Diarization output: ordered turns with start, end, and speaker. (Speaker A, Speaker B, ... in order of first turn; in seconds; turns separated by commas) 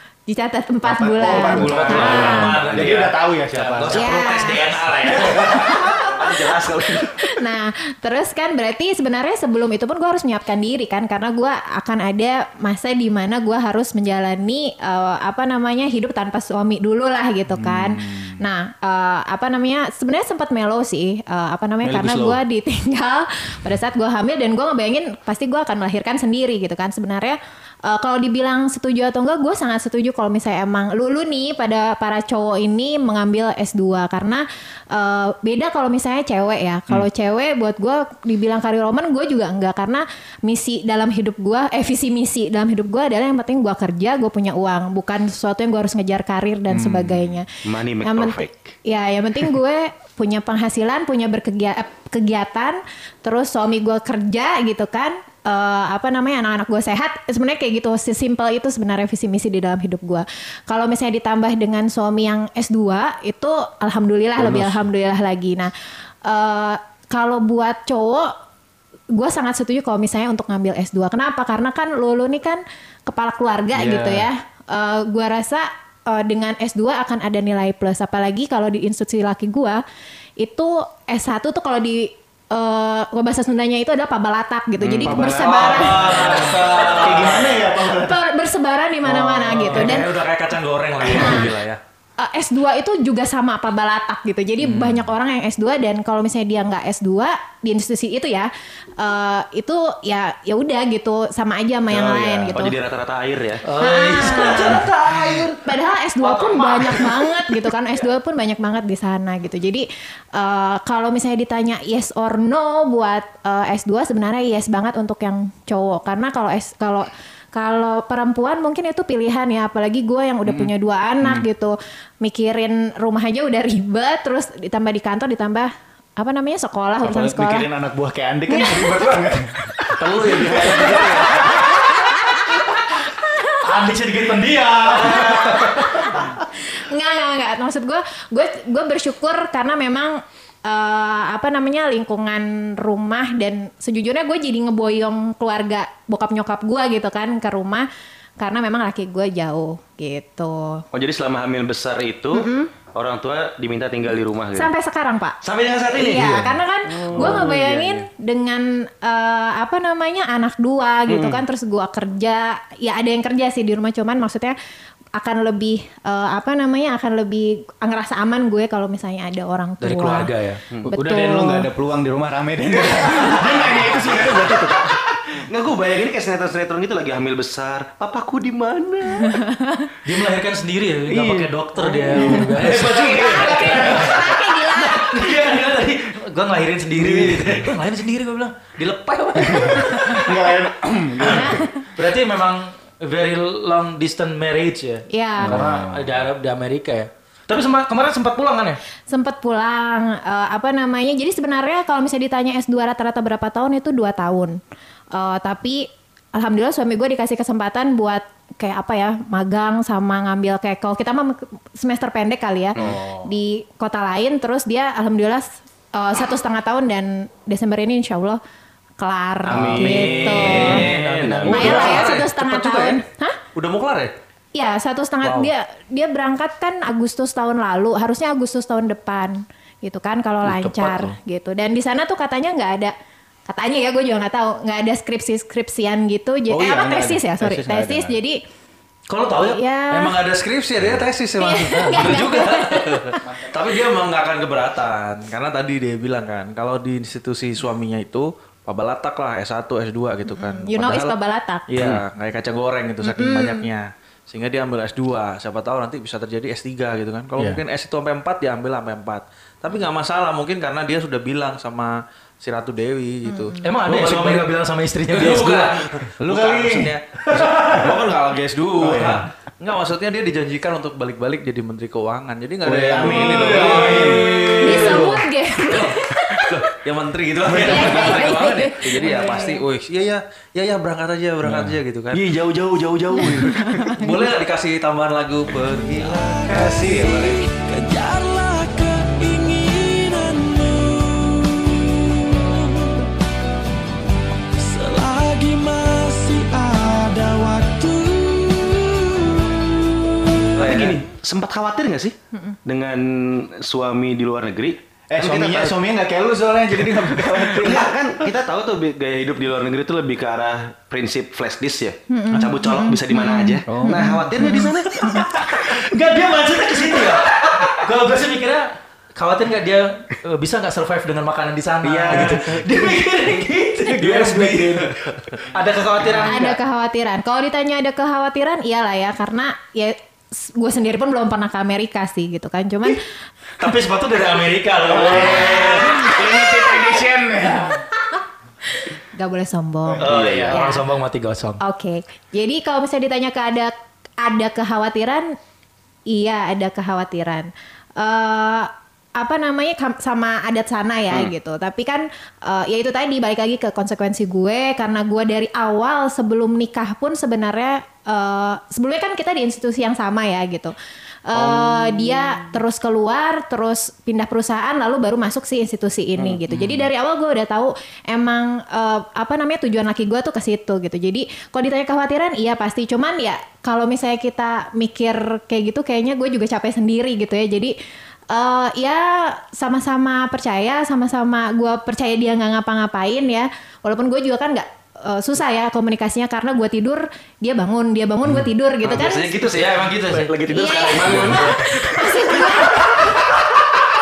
Speaker A: 0.3-2.6, Speaker B: 0.8-4.1, Speaker C: 1.3-5.7, Speaker D: 1.6-3.0, Speaker D: 3.9-4.4, Speaker A: 3.9-4.7, Speaker B: 5.1-5.6, Speaker D: 5.3-7.2, Speaker A: 5.6-6.5, Speaker A: 7.1-47.5, Speaker B: 17.5-18.4, Speaker B: 21.9-22.4, Speaker D: 46.7-48.8, Speaker A: 48.0-65.7, Speaker B: 64.4-64.8, Speaker A: 66.2-68.3, Speaker A: 69.1-79.8, Speaker B: 73.8-74.1, Speaker D: 73.8-74.2, Speaker A: 80.4-86.5, Speaker B: 84.9-88.2, Speaker E: 85.5-87.6, Speaker C: 85.9-86.7, Speaker A: 87.8-90.1, Speaker E: 89.2-91.8, Speaker C: 89.3-90.0, Speaker A: 91.1-91.5, Speaker A: 92.2-102.7, Speaker D: 101.9-103.7, Speaker C: 103.6-105.5, Speaker A: 103.8-104.8, Speaker D: 104.4-105.4, Speaker A: 105.6-127.7, Speaker B: 120.5-120.7, Speaker B: 127.0-131.4, Speaker A: 128.5-129.0, Speaker E: 130.0-131.5, Speaker C: 133.6-136.1, Speaker A: 135.0-147.9, Speaker A: 148.4-150.8, Speaker D: 150.9-154.7, Speaker A: 152.3-152.7, Speaker A: 154.6-155.4, Speaker D: 155.4-158.0, Speaker A: 155.9-164.6, Speaker D: 161.1-161.4, Speaker A: 165.2-170.3, Speaker C: 169.8-170.6, Speaker B: 170.9-174.9, Speaker A: 170.9-171.7, Speaker D: 172.8-179.4, Speaker A: 179.6-179.9, Speaker C: 180.0-190.2, Speaker D: 181.1-183.3, Speaker A: 182.3-185.3, Speaker B: 187.0-187.7, Speaker B: 189.5-191.6, Speaker A: 191.2-191.7, Speaker C: 191.3-198.8, Speaker A: 195.1-195.6, Speaker B: 195.4-196.2, Speaker A: 199.1-204.6, Speaker A: 205.1-218.4, Speaker D: 212.8-213.0, Speaker B: 212.8-213.3, Speaker A: 219.0-220.8, Speaker B: 219.5-220.8, Speaker D: 219.5-222.1, Speaker C: 220.1-221.9, Speaker E: 220.4-223.0, Speaker A: 221.5-223.4, Speaker E: 223.6-224.2, Speaker A: 224.6-232.9, Speaker E: 225.2-225.5, Speaker A: 233.5-238.4, Speaker B: 236.5-238.2, Speaker C: 239.1-239.6, Speaker A: 239.3-240.2, Speaker E: 239.9-251.1, Speaker A: 241.4-243.1, Speaker A: 250.3-251.7, Speaker E: 251.7-264.5, Speaker D: 251.8-252.0, Speaker A: 253.0-253.7, Speaker B: 257.4-257.6, Speaker A: 263.2-263.6, Speaker C: 263.6-265.8, Speaker E: 265.1-282.2, Speaker B: 266.2-267.6, Speaker B: 268.8-269.2, Speaker B: 272.6-275.1, Speaker C: 273.6-274.1, Speaker A: 274.6-276.5, Speaker B: 277.5-278.1, Speaker A: 277.6-279.6, Speaker D: 277.7-278.3, Speaker D: 278.9-279.5, Speaker B: 281.4-281.7, Speaker D: 282.1-284.0, Speaker A: 283.2-284.1, Speaker E: 283.9-286.7, Speaker F: 285.9-293.0, Speaker B: 286.5-287.4, Speaker F: 294.6-299.6, Speaker E: 300.6-301.0, Speaker D: 300.6-305.8, Speaker B: 305.1-308.3, Speaker D: 306.9-315.8, Speaker A: 312.1-315.2, Speaker B: 313.7-314.1, Speaker C: 315.1-326.6, Speaker D: 321.8-322.6, Speaker A: 326.2-333.0, Speaker C: 333.6-336.3, Speaker B: 334.9-337.8, Speaker A: 338.8-340.8, Speaker C: 340.0-341.6, Speaker D: 340.0-340.6, Speaker A: 341.6-345.4, Speaker A: 346.1-360.7, Speaker A: 361.3-377.8, Speaker D: 361.3-362.4, Speaker A: 378.3-389.3, Speaker D: 388.8-393.6, Speaker C: 389.5-390.4, Speaker A: 390.5-393.0, Speaker C: 391.0-391.6